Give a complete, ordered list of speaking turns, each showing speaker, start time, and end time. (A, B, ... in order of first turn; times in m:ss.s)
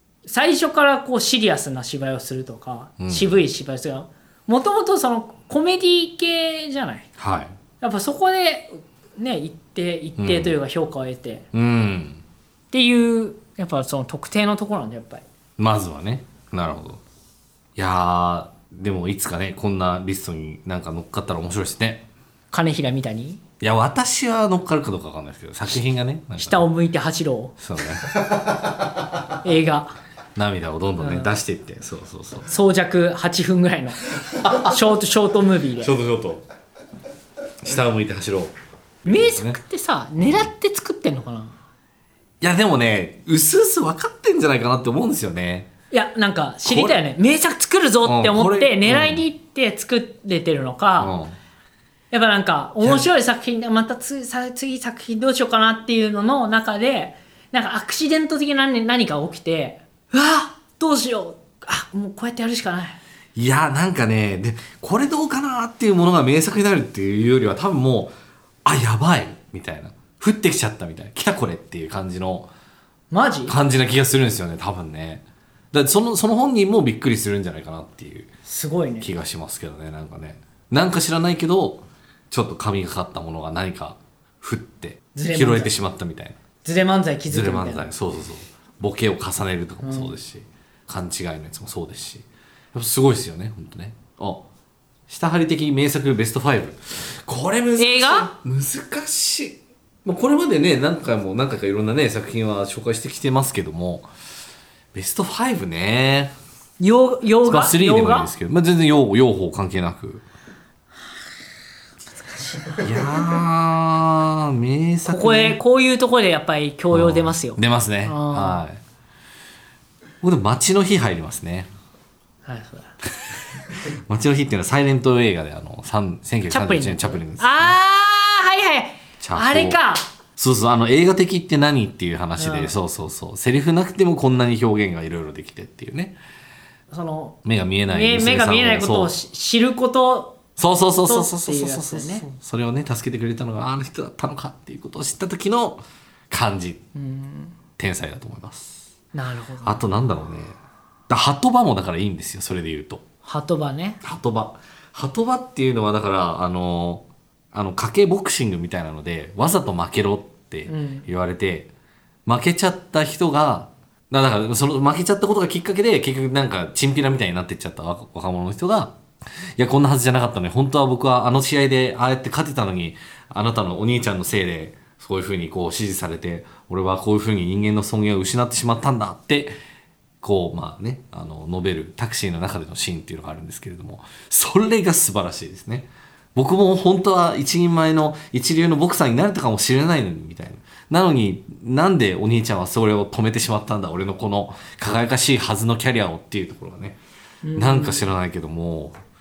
0:00.2-0:07.1 A
0:03.0-0:03.4 B
0:07.2-0:07.5 B
0:07.8-0:11.5 A
0:10.2-0:10.6 B
0:11.5-0:12.2 B
0:12.7-0:15.2 A
0:15.6-0:17.0 B
0:17.8-0:22.1 B
0:22.5-0:23.4 A
0:23.6-0:26.7 B
0:26.4-0:27.5 A
0:27.6-0:28.2 B
0:29.4-0:30.0 A
0:30.4-0:32.5 B
0:31.0-0:31.3 A
0:32.5-0:35.9 A
0:34.4-0:34.8 B
0:35.8-0:36.4 B
0:37.6-0:39.6 B
0:39.0-0:41.6 A
0:40.2-0:40.5 B
0:42.4-0:45.7 B
0:45.9-0:51.1 A
0:46.6-0:47.0 B
0:48.0-0:49.2 B
0:51.0-0:51.4 B
0:52.1-1:03.0 A
1:03.4-1:08.1 B
1:08.6-1:12.5 B
1:13.1-1:13.6 A
1:13.5-1:18.3 B
1:18.4-1:19.1 A
1:19.0-1:26.4 B
1:25.1-1:25.7 A
1:26.6-1:27.9 A
1:27.3-1:34.4 B
1:29.8-1:30.1 A
1:35.1-1:44.1 B
1:37.8-1:38.3 A
1:44.9-1:46.3 B
1:46.8-1:48.3 A
1:47.4-1:50.2 B
1:52.2-1:52.8 A
1:52.8-1:55.6 B
1:55.1-1:58.6 A
1:56.9-1:58.8 B
2:00.2-2:01.7 B
2:02.4-2:02.9 A
2:03.7-2:07.8 B
2:06.5-2:10.1 A
2:09.2-2:09.8 B
2:10.4-2:16.2 B
2:12.4-2:12.7 A
2:16.9-2:20.4 A
2:17.4-2:19.1 B
2:20.6-2:26.8 B
2:21.0-2:22.3 A
2:26.9-2:27.5 A
2:27.8-2:28.8 B
2:29.1-2:29.8 A
2:29.6-2:30.6 B
2:31.1-2:33.0 B
2:33.2-2:34.0 A
2:34.0-2:41.7 B
2:40.7-2:41.1 A
2:42.2-2:49.0 B
2:49.6-2:59.6 B
3:00.2-3:17.0 B
3:17.4-3:18.0 A
3:17.6-3:19.0 B